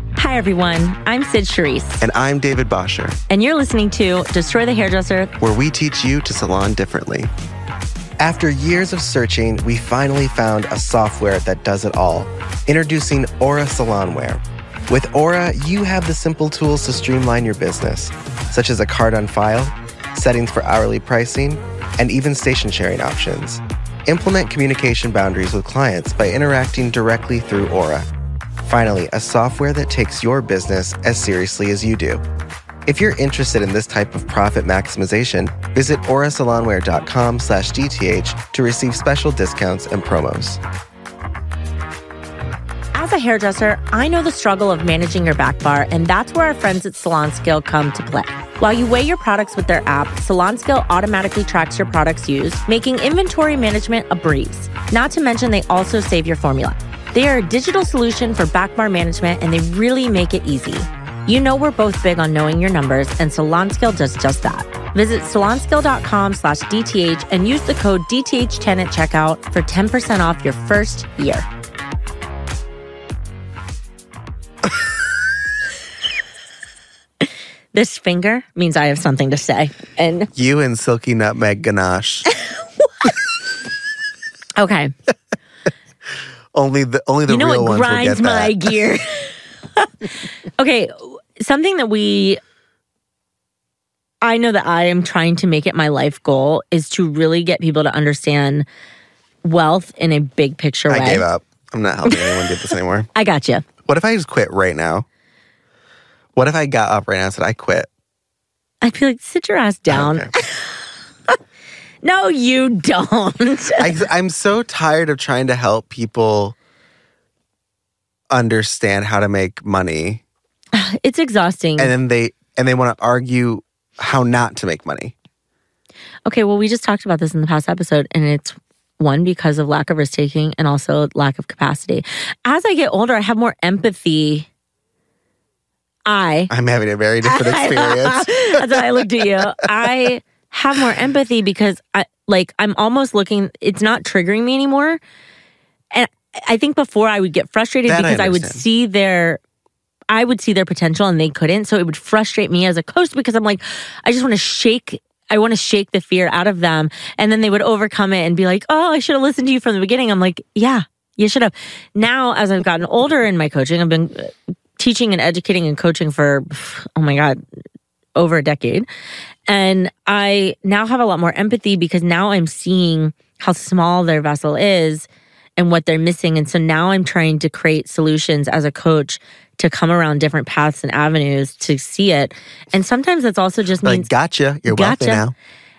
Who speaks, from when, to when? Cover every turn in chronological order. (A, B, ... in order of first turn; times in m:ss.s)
0:00.2-0:02.0 A
0:02.0-0:03.2 B
0:03.3-0:05.3 A
0:05.4-0:07.3 B
0:08.2-0:28.1 B
0:28.6-0:32.2 B
0:32.9-0:40.6 B
0:42.9-1:11.5 A
1:17.7-1:20.3 A
1:20.4-1:22.3 B
1:24.6-1:24.9 A
1:26.5-1:28.8 B
1:27.3-1:30.1 A
1:30.6-1:32.4 A
1:34.2-1:38.7 A
1:39.4-1:41.2 A
1:40.9-1:43.1 B
1:42.1-1:42.6 A
1:43.2-1:43.6 A
1:43.8-1:45.1 B
1:46.4-1:47.9 B
1:48.8-1:50.8 A
1:49.9-1:50.3 B
1:52.0-1:54.0 A
1:53.8-1:56.6 B
1:58.3-2:00.2 B
2:00.7-2:01.9 A
2:01.8-2:05.2 B
2:06.3-2:14.5 A
2:16.1-2:16.5 A
2:16.5-2:19.6 B
2:17.2-2:25.0 A
2:25.9-2:29.4 A
2:27.9-2:28.6 B
2:30.1-2:47.4 A
2:48.2-2:48.9 A
2:49.5-3:04.1 A
3:03.8-3:05.4 B
3:04.7-3:05.2 A